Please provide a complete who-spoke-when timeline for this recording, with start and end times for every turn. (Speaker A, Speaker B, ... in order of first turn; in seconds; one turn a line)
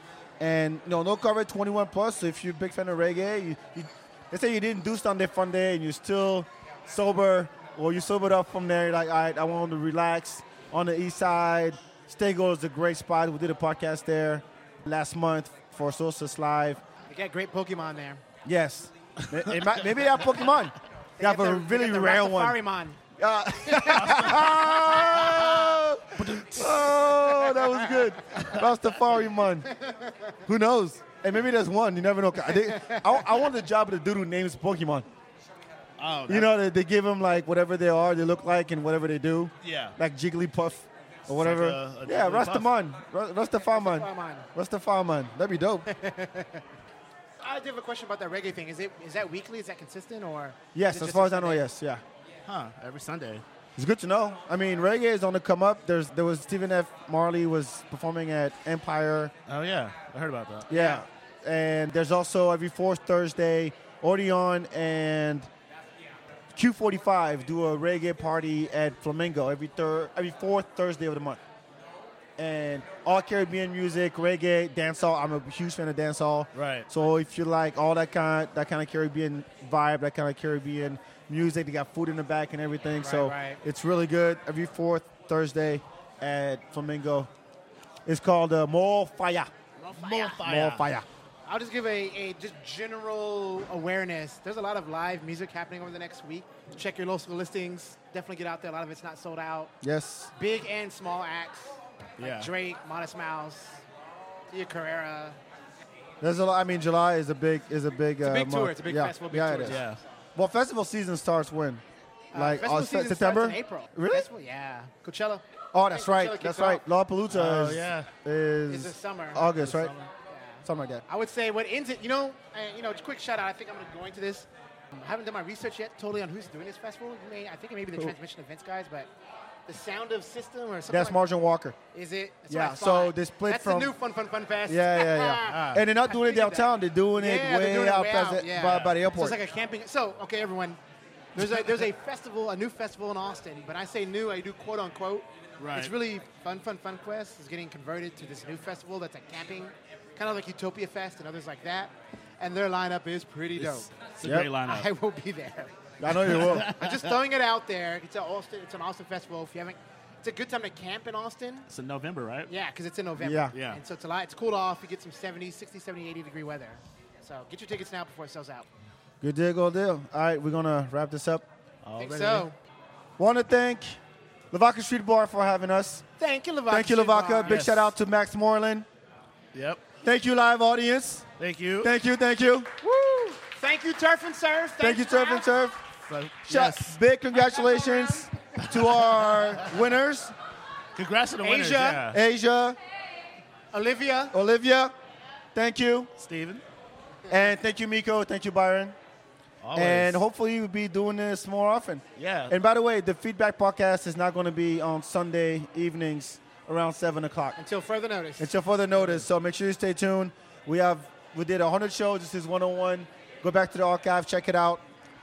Speaker A: 0.4-16.8
Speaker B: 17.1-18.2
Speaker A: 18.4-22.6
Speaker C: 19.2-20.6
Speaker B: 21.2-23.0
Speaker A: 23.2-29.7
Speaker B: 23.7-25.4
Speaker C: 23.8-25.4
Speaker C: 26.2-27.1
Speaker B: 27.4-28.1
Speaker C: 28.3-28.7
Speaker B: 29.7-30.4
Speaker A: 30.4-35.1
Speaker B: 32.5-33.4
Speaker C: 36.0-36.5
Speaker A: 36.3-45.9
Speaker C: 39.6-40.0
Speaker C: 41.3-42.7
Speaker B: 43.7-44.5
Speaker B: 45.9-46.6
Speaker B: 47.4-51.7
Speaker A: 50.7-52.0
Speaker C: 52.5-53.4
Speaker A: 53.8-59.3
Speaker C: 59.5-60.7
Speaker A: 60.7-65.5
Speaker B: 60.7-61.0
Speaker A: 66.5-71.4
Speaker A: 72.4-87.3
Speaker C: 76.5-76.9
Speaker B: 83.0-83.6
Speaker A: 88.1-89.5
Speaker B: 89.8-90.4
Speaker C: 90.0-90.9
Speaker A: 90.4-91.1
Speaker B: 91.5-99.7
Speaker A: 99.8-100.3
Speaker B: 100.3-103.8
Speaker C: 102.2-102.5
Speaker B: 104.5-105.4
Speaker A: 106.2-114.3
Speaker B: 108.2-110.0
Speaker C: 109.7-110.0
Speaker B: 112.3-116.8
Speaker A: 115.7-119.9
Speaker C: 117.3-118.1
Speaker B: 118.7-119.6
Speaker C: 119.5-120.1
Speaker B: 120.2-129.1
Speaker A: 120.6-121.0
Speaker B: 129.7-131.2
Speaker A: 130.9-131.8
Speaker B: 131.9-140.8
Speaker A: 132.5-133.9
Speaker A: 134.7-139.4
Speaker C: 135.5-135.8
Speaker B: 141.3-153.9
Speaker C: 145.6-145.9
Speaker C: 153.6-154.9
Speaker A: 154.2-154.5
Speaker B: 154.6-155.7
Speaker A: 156.0-156.7
Speaker C: 156.1-157.2
Speaker B: 156.2-161.7
Speaker C: 161.7-162.5
Speaker B: 162.5-168.7
Speaker A: 163.2-163.6
Speaker C: 163.5-163.8
Speaker A: 169.2-171.4
Speaker C: 171.8-172.5
Speaker B: 172.0-172.6
Speaker A: 173.2-174.0
Speaker A: 174.5-176.1
Speaker B: 176.2-177.7
Speaker A: 176.7-178.9
Speaker C: 177.4-177.9
Speaker C: 179.5-179.9
Speaker A: 180.0-181.3
Speaker C: 181.4-181.9
Speaker A: 181.8-182.8
Speaker B: 182.8-185.5
Speaker A: 184.8-185.8
Speaker C: 186.1-187.0
Speaker A: 186.4-190.3
Speaker B: 187.8-188.1
Speaker C: 188.6-189.7
Speaker C: 190.9-192.2
Speaker B: 191.4-192.1
Speaker A: 192.1-192.8
Speaker B: 193.7-194.3
Speaker A: 194.3-194.9
Speaker A: 195.6-196.1
Speaker C: 196.2-196.6
Speaker A: 197.3-199.0
Speaker C: 199.6-200.2
Speaker A: 199.7-207.6
Speaker C: 202.2-202.6
Speaker B: 207.6-208.5
Speaker A: 208.4-214.8